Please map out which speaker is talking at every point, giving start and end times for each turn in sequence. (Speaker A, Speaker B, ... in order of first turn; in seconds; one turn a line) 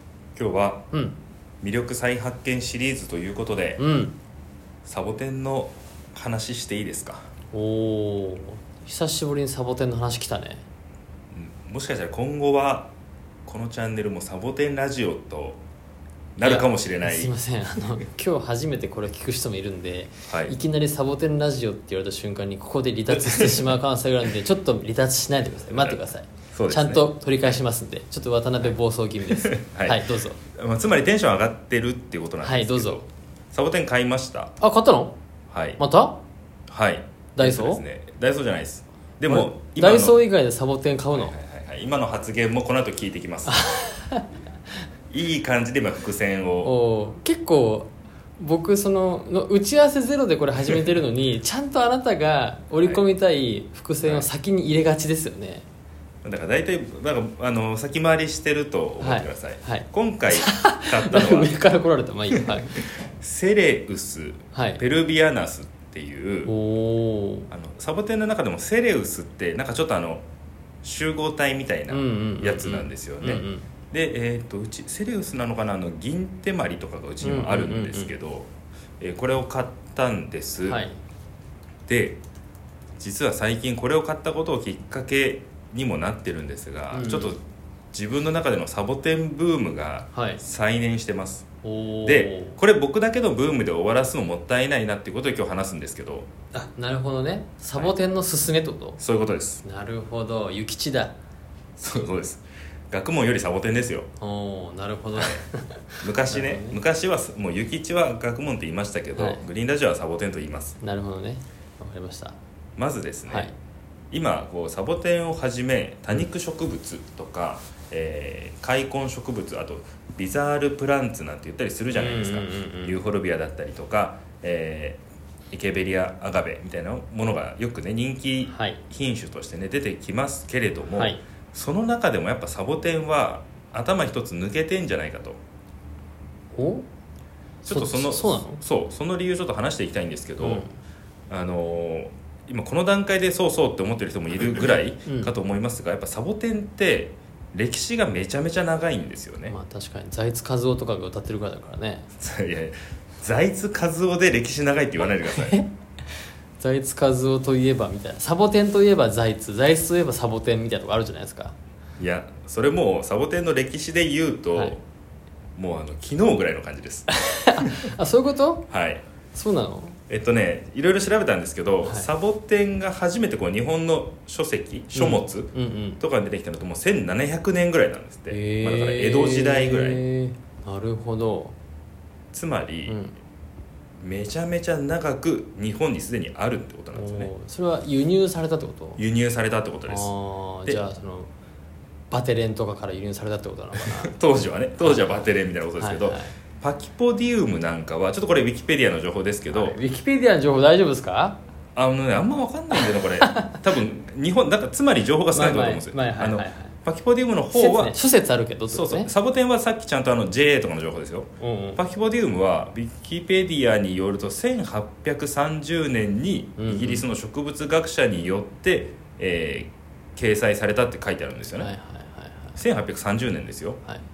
Speaker A: 0.3-0.9
Speaker A: 1.6-3.8
Speaker B: 3.8-4.1
Speaker A: 4.8-7.2
Speaker B: 7.5-10.6
Speaker A: 11.3-12.9
Speaker A: 13.4-15.6
Speaker A: 16.4-17.3
Speaker B: 16.4-30.4
Speaker A: 20.3-20.5
Speaker A: 23.1-23.7
Speaker A: 25.7-26.0
Speaker A: 26.5-27.6
Speaker A: 29.3-34.5
Speaker B: 32.4-33.0
Speaker B: 34.6-35.1
Speaker A: 35.5-35.8
Speaker B: 35.8-36.2
Speaker A: 36.7-40.2
Speaker B: 37.4-37.8
Speaker B: 39.3-41.3
Speaker A: 41.1-43.6
Speaker B: 43.5-44.3
Speaker A: 45.1-46.7
Speaker B: 46.6-55.6
Speaker A: 54.0-54.3
Speaker A: 56.2-61.5
Speaker B: 59.0-62.8
Speaker A: 62.3-66.5
Speaker B: 64.5-64.8
Speaker B: 66.5-67.5
Speaker A: 67.5-70.2
Speaker A: 70.8-80.8
Speaker B: 71.9-73.7
Speaker B: 77.2-78.1
Speaker B: 80.6-81.0
Speaker A: 81.9-82.2
Speaker A: 83.0-87.4
Speaker B: 86.9-87.3
Speaker A: 87.9-91.5
Speaker B: 90.1-90.4
Speaker B: 91.6-92.5
Speaker A: 92.0-96.3
Speaker B: 96.5-99.0
Speaker A: 99.0-99.6
Speaker B: 99.6-101.1
Speaker A: 101.8-104.1
Speaker B: 104.2-106.8
Speaker A: 105.2-105.4
Speaker A: 106.0-110.8
Speaker B: 109.2-109.4
Speaker B: 110.8-112.3
Speaker A: 112.8-113.5
Speaker B: 113.3-113.5
Speaker A: 114.1-125.0
Speaker B: 121.9-123.0
Speaker A: 125.5-135.4
Speaker B: 128.5-128.8
Speaker B: 130.9-131.2
Speaker B: 136.5-136.8
Speaker A: 137.6-140.6
Speaker B: 137.7-138.6
Speaker B: 140.4-140.7
Speaker A: 141.3-149.6
Speaker B: 145.1-145.3
Speaker B: 149.5-152.1
Speaker A: 152.2-155.6
Speaker B: 155.3-155.7
Speaker B: 156.6-161.5
Speaker A: 162.0-164.8
Speaker A: 165.6-167.9
Speaker B: 167.1-168.7
Speaker A: 168.7-169.0
Speaker B: 169.3-170.0
Speaker A: 170.1-180.0
Speaker B: 174.9-176.0
Speaker B: 178.3-181.5
Speaker A: 182.3-183.0
Speaker B: 182.9-183.1
Speaker A: 184.0-187.3
Speaker B: 186.9-189.0
Speaker A: 189.0-190.1
Speaker B: 189.9-191.3
Speaker B: 192.1-194.1
Speaker A: 193.8-199.8
Speaker B: 195.8-196.3
Speaker B: 199.5-201.4
Speaker A: 201.7-207.9
Speaker B: 202.8-203.6
Speaker B: 205.3-206.7
Speaker B: 207.5-209.1
Speaker A: 208.7-221.7
Speaker B: 211.4-211.8
Speaker B: 216.6-217.1
Speaker B: 221.6-222.6
Speaker A: 222.6-223.8